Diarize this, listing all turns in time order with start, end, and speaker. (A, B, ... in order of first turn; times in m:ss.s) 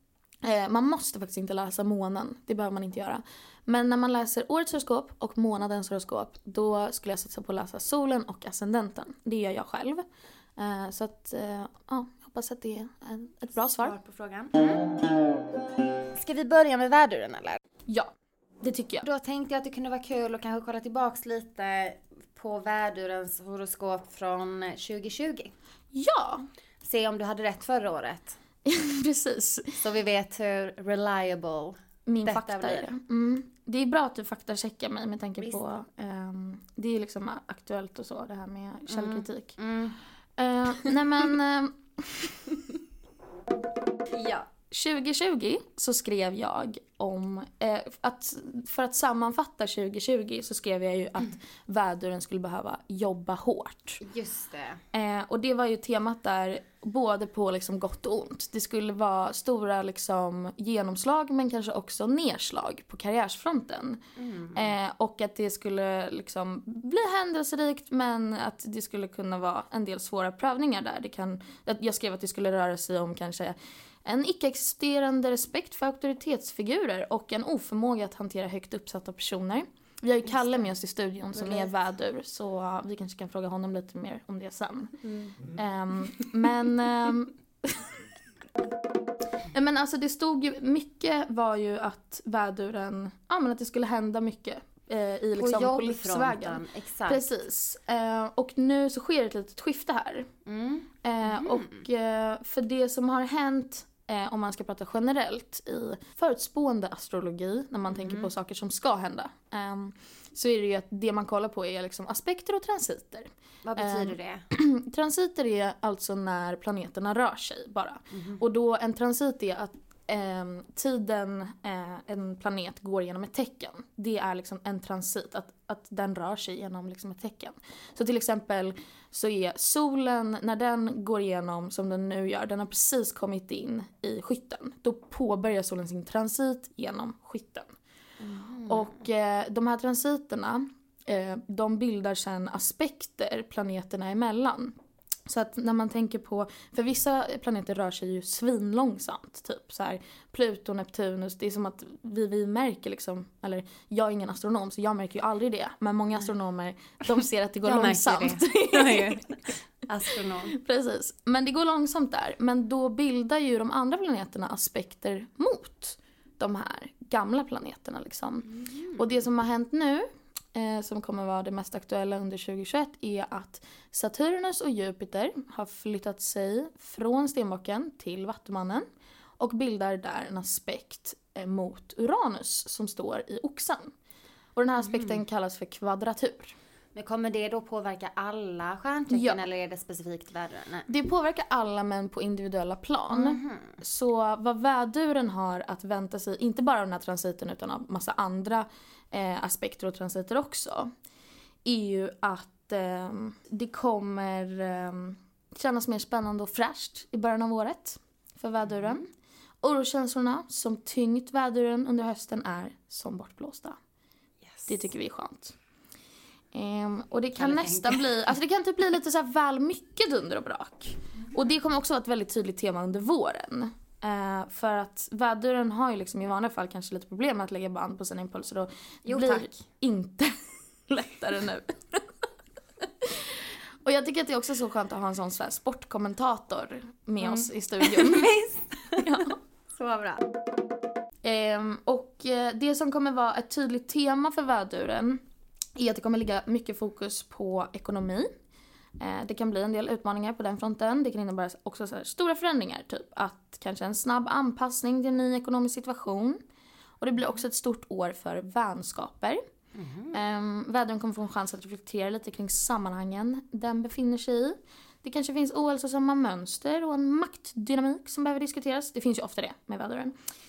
0:00.4-0:10.0 A
0:10.6-0:13.9 A
0:13.8-0:14.9 B
0:16.1-0:17.6 B
0:18.6-0:19.0 A
0:19.0-0:25.5 B
0:25.9-0:26.5 A
0:26.8-0:28.4 B
0:28.6-0:29.8 A
0:29.8-0:32.8 B
0:32.0-0:39.6 A
0:38.9-0:40.0 B
0:40.4-0:42.5 A
0:44.1-0:44.5 B
0:44.7-0:54.0 A
0:54.0-0:54.8 B
0:54.9-1:04.0 A
1:04.2-1:04.7 B
1:04.5-1:27.9 A
1:21.4-1:21.7 B
1:25.1-1:25.3 B
1:29.5-1:40.3 A
1:35.3-1:37.2 B
1:40.4-1:41.8 B
1:41.0-2:17.7 A
1:47.9-1:48.3 B
1:53.6-1:54.4 B
1:58.1-1:58.4 B
2:18.2-2:18.9 B
2:18.6-2:24.7 A
2:25.2-2:39.3 A
2:37.6-2:40.6 B
2:40.5-2:58.8 A
2:48.6-2:49.0 B
2:59.4-3:03.9 A
3:04.6-3:06.6 A
3:06.9-3:10.9 B
3:09.1-3:09.4 A
3:10.9-3:20.9 A
3:13.1-3:13.8 B
3:21.6-3:29.0 A
3:29.6-3:33.8 A
3:34.7-3:35.6 A
3:36.5-3:52.0 A
3:37.4-3:38.1 B
3:49.0-3:49.5 B
3:53.0-3:58.3 A
3:57.2-4:00.3 B
3:59.0-3:59.4 A
4:01.2-4:05.2 A
4:05.8-4:08.3 A
4:09.0-4:16.4 A
4:17.0-4:19.4 A
4:19.7-4:20.2 B
4:20.1-4:30.1 A